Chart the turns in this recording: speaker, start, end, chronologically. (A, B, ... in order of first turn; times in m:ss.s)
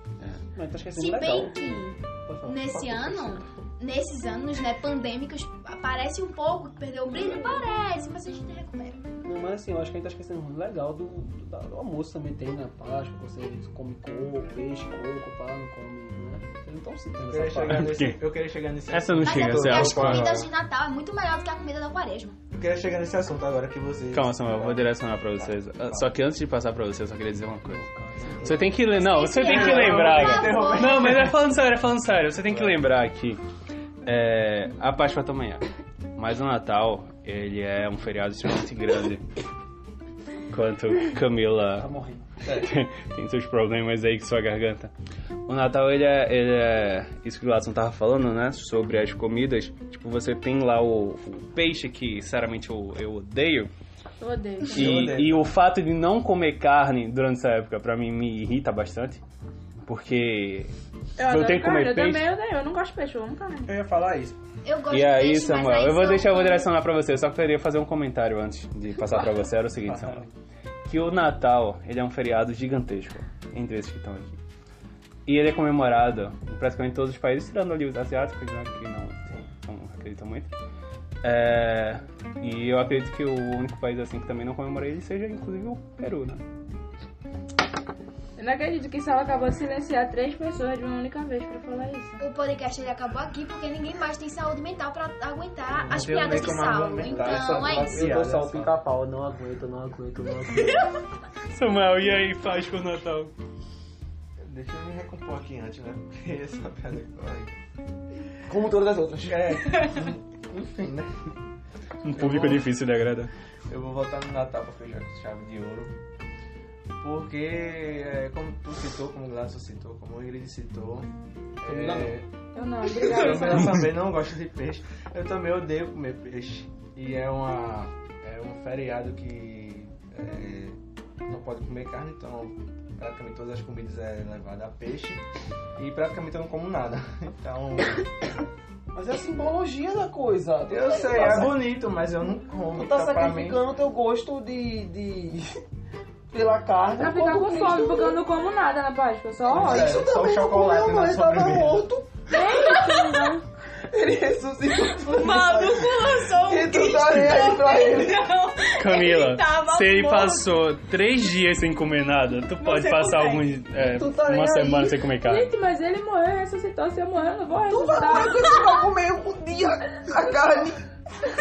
0:00.2-0:01.9 A
0:00.9-0:09.0 B
0:02.2-0:03.4 C
0:09.2-0:17.9 A
0:17.2-0:20.5 C
0:17.7-0:18.2 D
0:18.9-0:20.5 D
0:19.2-0:22.4 B
0:22.5-0:26.1 C
0:24.1-0:27.8 D
0:27.6-0:28.7 A
0:28.3-0:28.7 C
0:28.4-0:33.4 D
0:28.8-0:31.2 B
0:29.4-0:31.3 C
0:32.5-0:32.8 C
0:34.0-0:35.6 D
0:36.1-0:39.2 D
0:40.5-0:41.9 D
0:41.8-0:42.3 A
0:42.4-0:42.7 C
0:42.5-0:44.9 D
0:45.5-0:53.7 D
0:54.2-0:54.8 E
0:54.7-0:59.2 D
0:54.7-0:55.5 C
0:59.8-1:02.3 D
1:01.2-1:03.7 E
1:03.6-1:04.4 C
1:04.6-1:06.7 B
1:04.9-1:10.2 D
1:09.7-1:10.3 C
1:10.8-1:14.4 D
1:15.2-1:20.5 D
1:21.2-1:26.4 D
1:28.4-1:32.2 E
1:32.2-1:38.1 B
1:35.7-1:38.7 C
1:35.9-1:40.8 A
1:41.5-1:43.3 D
1:44.4-1:47.6 C
1:48.5-1:50.0 A
1:49.3-1:51.1 C
1:52.0-1:53.3 D
1:52.2-1:52.6 C
1:53.7-1:55.9 C
1:57.0-2:01.1 C
2:01.6-2:02.3 C
2:01.6-2:02.1 A
2:02.5-2:03.8 E
2:02.9-2:15.2 C
2:03.0-2:03.6 A
2:15.8-2:18.1 C
2:18.9-2:21.6 A
2:20.7-2:23.6 C
2:21.2-2:21.5 B
2:22.7-2:25.6 A
2:26.3-2:28.2 A
2:27.0-2:30.0 E
2:29.5-2:31.8 C
2:29.5-2:32.1 A
2:32.3-2:33.4 E
2:32.3-2:33.2 B
2:33.8-2:38.3 A
2:34.8-2:40.5 B
2:38.8-2:45.5 D
2:42.6-2:43.4 B
2:43.8-2:45.0 A
2:45.2-2:48.7 E
2:47.7-2:50.8 A